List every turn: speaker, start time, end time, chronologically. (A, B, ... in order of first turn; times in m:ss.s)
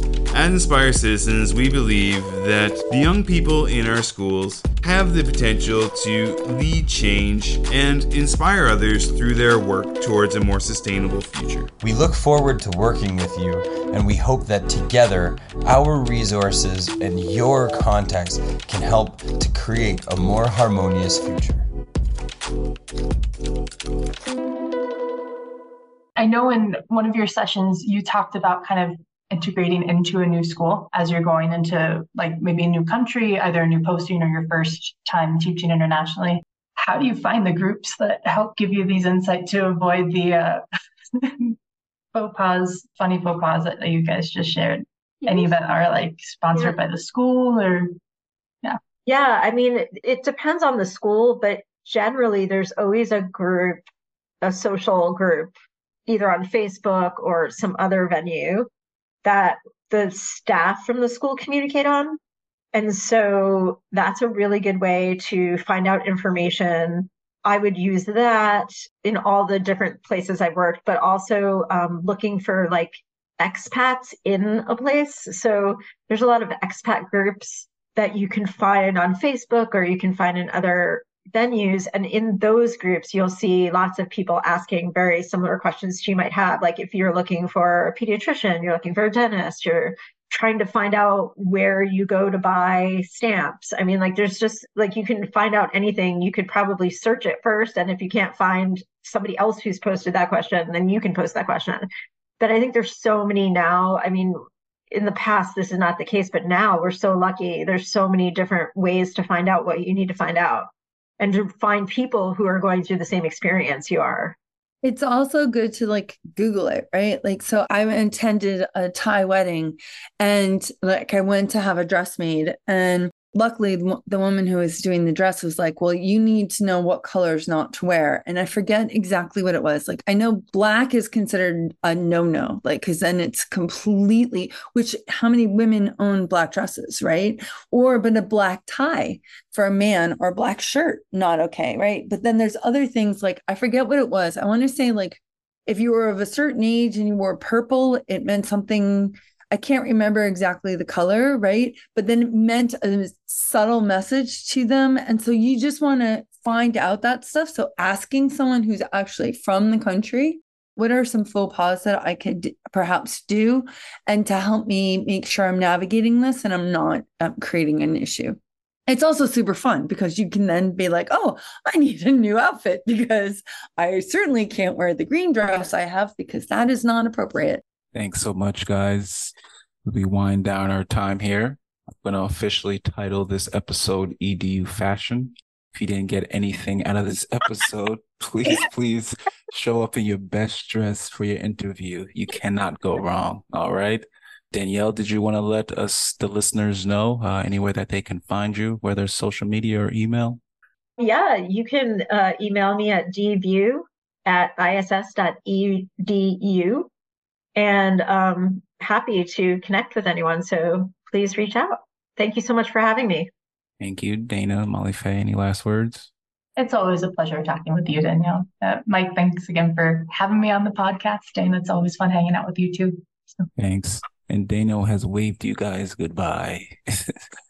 0:00.3-0:11.7 A
0:11.8-0:21.6 B
0:26.2-0:40.6 C
0:41.2-0:41.5 C
0:42.1-0:47.9 C
0:45.2-0:45.5 D
0:49.0-0:53.8 D
0:54.4-0:55.5 D
0:56.1-0:58.7 D
0:59.2-1:02.2 D
1:02.7-1:41.9 D
1:42.4-1:44.4 D
1:44.9-1:54.4 D
1:54.8-2:57.6 E
2:57.9-2:59.3 F
2:59.8-3:20.4 F
3:21.0-3:26.9 D
3:27.6-3:33.3 D
3:33.8-3:36.1 F
3:36.6-3:43.5 C
3:43.6-3:47.1 F